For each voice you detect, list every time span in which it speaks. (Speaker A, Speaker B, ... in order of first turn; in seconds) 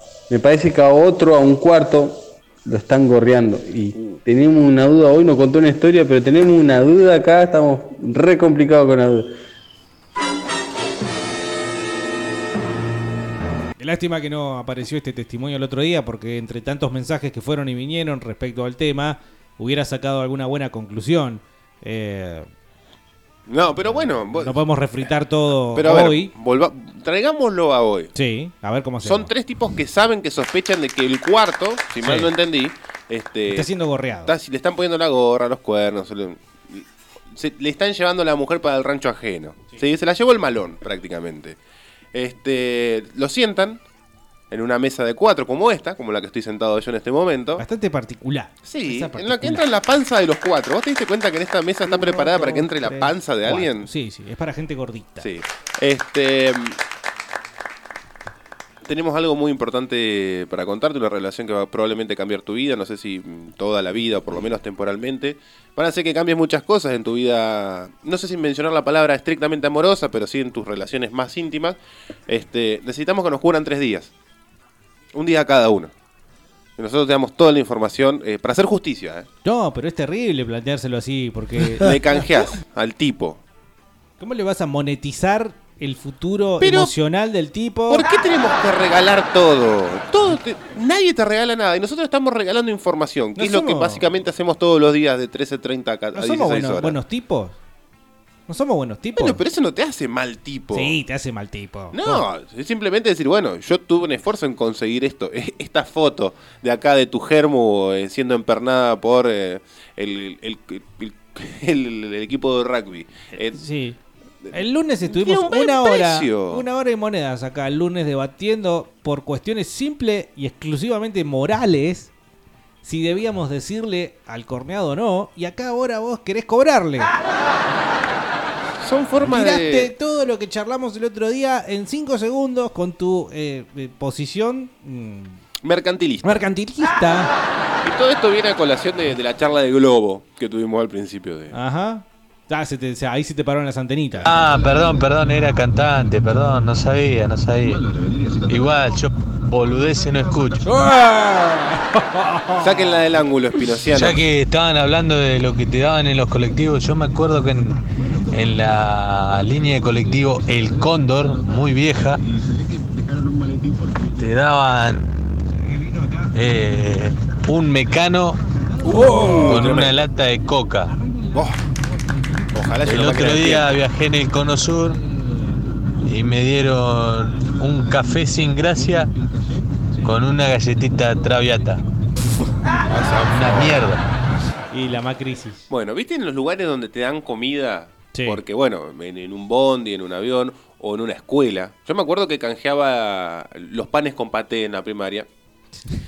Speaker A: 0.3-9.3
Speaker B: 13.8-22.5, 23.8-26.3, 28.1-29.3, 32.0-32.3, 33.5-34.3, 47.6-49.6, 51.9-55.3, 79.5-81.9, 84.2-88.0, 93.4-94.1, 96.2-97.6, 98.5-99.4, 100.7-102.2, 113.5-114.0, 114.5-122.1, 122.8-127.1, 129.2-135.4, 136.2-137.3, 141.5-144.3, 150.8-153.0, 168.9-169.7, 184.7-185.7, 188.1-188.4
Speaker C: 23.5-25.1, 25.7-28.1, 29.0-33.7, 34.3-41.6, 42.1-43.8, 44.5-47.6, 48.6-53.9, 55.2-56.8, 58.9-71.8, 72.3-74.1, 75.1-75.9, 76.8-79.3, 81.8-83.4, 86.6-86.9, 87.9-97.0, 99.2-101.0, 101.9-113.6, 114.4-116.6, 128.8-129.9, 135.6-136.4, 137.8-141.6, 152.6-154.2, 169.0-170.0, 172.5-173.7, 182.9-183.8, 185.7-195.3
Speaker D: 144.2-147.8, 148.5-150.7, 153.9-157.8, 158.3-162.2, 164.2-165.1, 166.3-170.9, 172.9-175.0, 176.1-179.1, 180.0-181.8, 183.3-184.0